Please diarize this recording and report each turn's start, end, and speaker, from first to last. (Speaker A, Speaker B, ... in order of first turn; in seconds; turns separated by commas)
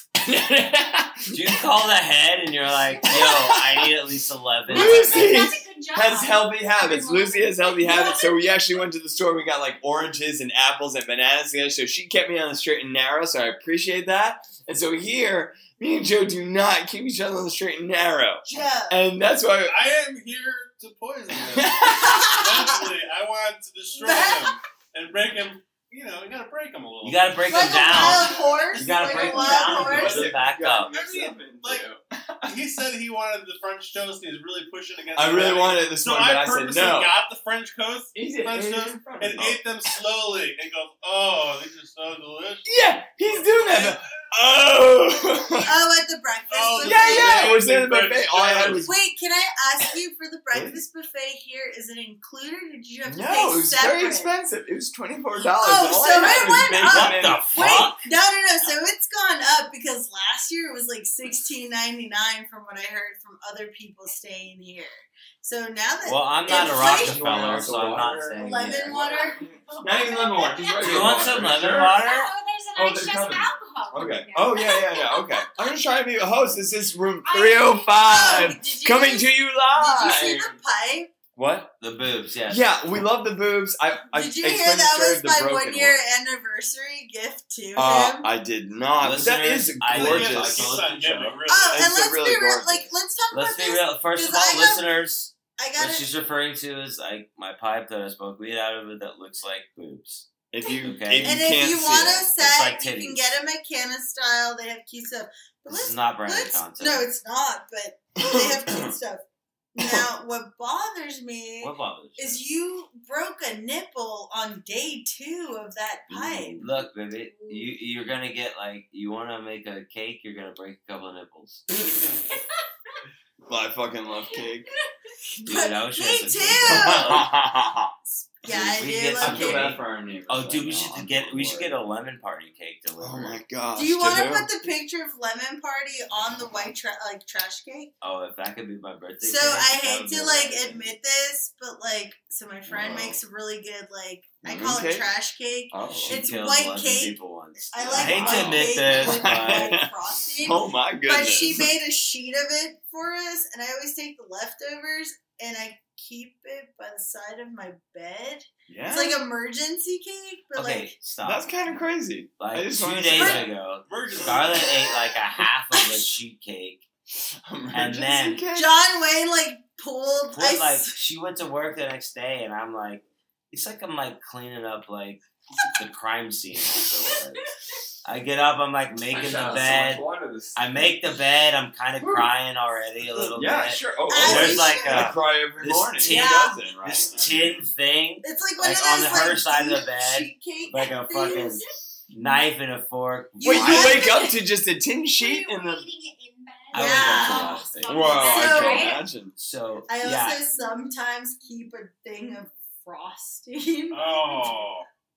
Speaker A: 0.2-1.6, Speaker B: 1.3-5.5, Speaker C: 3.0-3.7, Speaker A: 3.0-3.9, Speaker C: 4.7-8.8, Speaker A: 4.7-19.9, Speaker D: 18.4-19.0, Speaker E: 19.7-28.1, Speaker A: 21.4-22.5, Speaker D: 22.0-22.7, Speaker D: 23.9-24.6, Speaker B: 27.0-30.9, Speaker D: 27.5-30.3, Speaker A: 27.9-28.2, Speaker A: 28.8-32.6, Speaker E: 30.9-31.9, Speaker E: 32.5-42.8, Speaker A: 35.1-37.1, Speaker A: 38.1-39.6, Speaker A: 42.6-45.8, Speaker E: 43.4-44.2, Speaker D: 45.6-47.6, Speaker E: 46.5-48.9, Speaker A: 46.8-48.9, Speaker D: 48.8-54.3, Speaker A: 50.5-50.8, Speaker A: 53.0-57.5, Speaker D: 55.4-67.8, Speaker B: 56.6-58.1, Speaker B: 66.0-69.0, Speaker A: 66.5-72.0, Speaker D: 68.4-69.4, Speaker C: 69.0-75.8, Speaker B: 70.8-72.3, Speaker A: 72.8-80.5, Speaker C: 77.2-78.6, Speaker D: 78.0-81.1, Speaker A: 81.4-81.7, Speaker B: 81.8-82.7, Speaker A: 82.5-86.0, Speaker D: 84.1-88.3, Speaker A: 87.8-92.9, Speaker B: 89.0-91.3, Speaker E: 89.9-92.0, Speaker D: 91.5-94.9, Speaker B: 93.3-100.3, Speaker D: 95.6-96.1, Speaker A: 100.5-102.2, Speaker D: 100.7-109.2, Speaker B: 100.8-103.2, Speaker B: 105.7-107.1, Speaker A: 108.2-109.0, Speaker D: 109.7-117.8, Speaker A: 109.8-110.1, Speaker B: 111.6-112.4, Speaker B: 116.1-121.6, Speaker A: 123.5-124.7, Speaker D: 125.4-127.3, Speaker B: 125.4-127.3, Speaker A: 126.6-127.9, Speaker D: 128.1-129.8, Speaker B: 128.4-133.4, Speaker A: 129.2-131.7, Speaker A: 133.0-134.5, Speaker D: 133.8-137.9, Speaker B: 138.0-140.8, Speaker D: 139.2-161.0, Speaker A: 142.7-143.2, Speaker A: 144.4-145.1, Speaker A: 145.7-146.2, Speaker B: 145.9-149.8, Speaker A: 147.9-151.7, Speaker A: 158.7-159.3, Speaker B: 160.6-161.5, Speaker A: 161.2-163.5, Speaker B: 162.4-166.8, Speaker D: 163.1-163.5, Speaker E: 163.4-164.9, Speaker A: 167.4-168.7, Speaker B: 167.7-168.5, Speaker D: 168.5-170.9, Speaker B: 170.3-175.2, Speaker B: 175.8-177.4, Speaker B: 178.1-194.1, Speaker A: 178.9-180.9, Speaker A: 182.0-182.3, Speaker A: 183.1-187.6, Speaker D: 184.1-185.1, Speaker D: 186.1-186.6, Speaker E: 187.1-187.5, Speaker D: 188.2-191.6, Speaker C: 191.2-191.5, Speaker D: 193.4-194.3, Speaker A: 193.4-195.9, Speaker C: 193.9-194.3, Speaker C: 195.2-199.1, Speaker B: 196.7-198.4, Speaker D: 196.7-197.6, Speaker A: 197.9-199.3, Speaker D: 198.2-199.0, Speaker B: 199.3-200.4, Speaker D: 199.9-204.4, Speaker E: 203.9-204.9